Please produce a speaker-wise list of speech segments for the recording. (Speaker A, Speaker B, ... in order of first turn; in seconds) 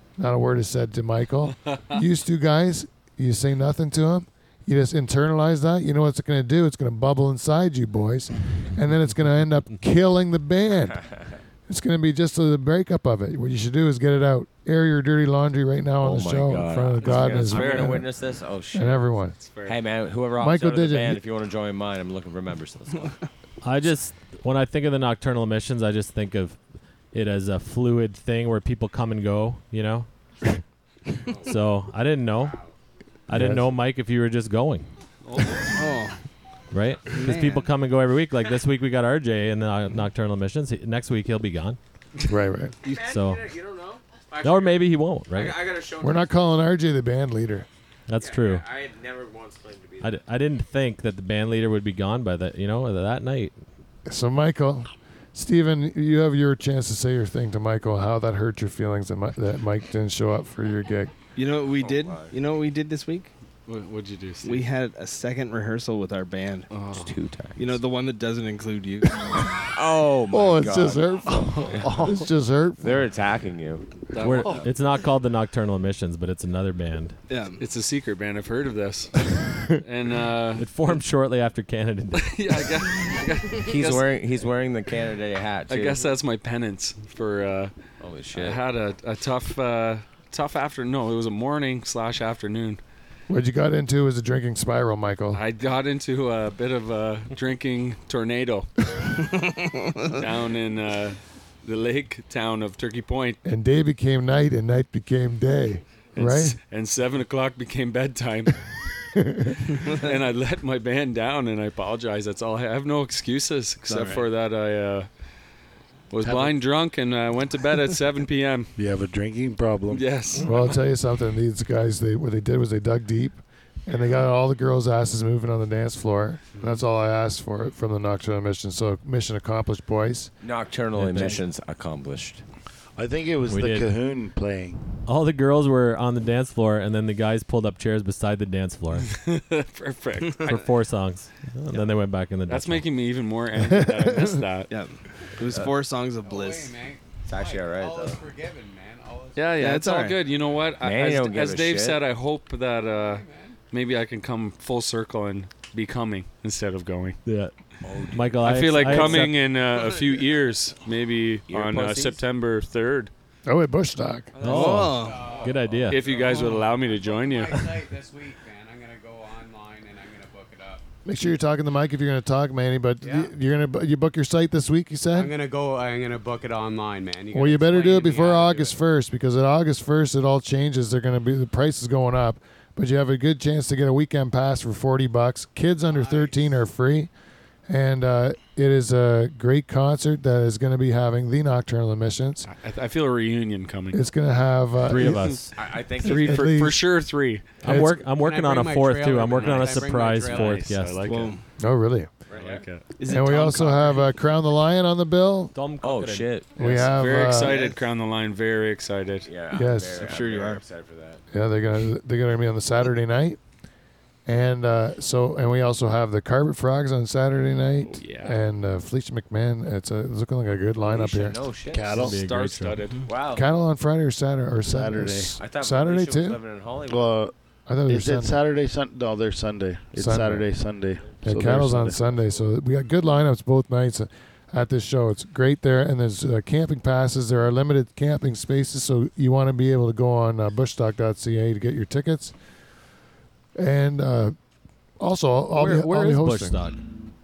Speaker A: 0.2-11.0, 11.7-18.1, 18.7-19.4, 20.4-21.2, 33.3-33.7, 42.2-42.8, 46.0-47.7, 54.1-61.1, 70.3-73.0, 93.3-95.4, 103.4-106.6, 109.1-109.6, 120.4-130.3, 143.7-144.3, 163.4-164.3, 171.0-175.3, 177.3-187.1, 187.7-192.5, 193.9-195.4, 196.0-196.8, 197.6-198.0, 201.6-202.1, 203.1-205.5, 206.6-207.6, 209.5-210.2, 211.3-213.4, 214.2-221.4, 223.3-226.4, 227.7-228.4, 229.9-230.5, 231.2-242.3, 243.6-244.3, 245.0-246.6
Speaker B: 16.0-19.0, 19.6-23.1, 42.8-46.3, 48.2-50.2, 61.8-62.3, 66.9-67.8, 69.7-72.1, 72.8-74.7, 83.6-86.1, 88.0-88.6, 130.4-132.4, 147.2-148.2, 150.8-152.0, 157.8-159.2, 161.5-162.2, 164.3-165.6, 195.5-196.5, 202.3-202.6, 205.8-207.7, 209.2-211.2, 220.8-222.1, 223.1-223.5, 225.4-227.2
Speaker C: 17.0-18.0, 19.4-19.8, 35.2-35.9, 63.7-64.7, 66.7-67.1, 74.1-74.7, 77.6-80.9, 82.1-84.0, 85.7-87.7, 88.3-92.8, 95.3-98.7, 100.1-103.4, 106.1-108.6, 109.7-115.1, 116.1-118.7, 119.9-120.8, 139.1-140.7, 142.5-144.7, 149.3-157.2, 158.4-163.1, 165.9-167.8, 192.4-194.0, 196.0-197.5, 199.3-201.3, 202.3-202.8, 206.6-209.3, 217.8-218.4, 222.1-223.1
Speaker D: 23.6-26.6, 27.1-30.1, 31.4-32.6, 33.3-34.9, 36.7-41.8, 43.0-43.4, 44.4-45.5, 48.1-48.6, 50.0-53.5, 74.2-77.2, 80.6-82.3, 130.9-131.4, 133.5-133.9, 135.1-139.1, 140.5-142.8, 157.2-157.5, 158.1-159.4, 164.4-166.0, 194.8-195.5, 197.6-201.2, 205.5-206.3, 221.9-222.8, 245.5-246.8
Speaker E: 35.7-36.2, 37.1-37.7, 61.4-63.3, 64.4-66.7, 67.6-69.2, 77.3-77.6, 99.2-100.2, 113.8-114.2, 144.7-146.7, 149.6-150.2, 164.5-165.2, 201.1-201.4, 203.0-204.1, 209.9-210.6
Speaker F: 71.3-72.2, 116.2-116.6, 118.8-120.1, 132.9-134.8, 221.7-222.2, 224.7-225.4, 226.9-227.3, 227.9-232.0
Speaker G: 146.2-149.5, 153.0-153.6, 164.9-170.8, 173.0-173.3, 175.1-178.8, 185.9-186.4, 197.7-200.6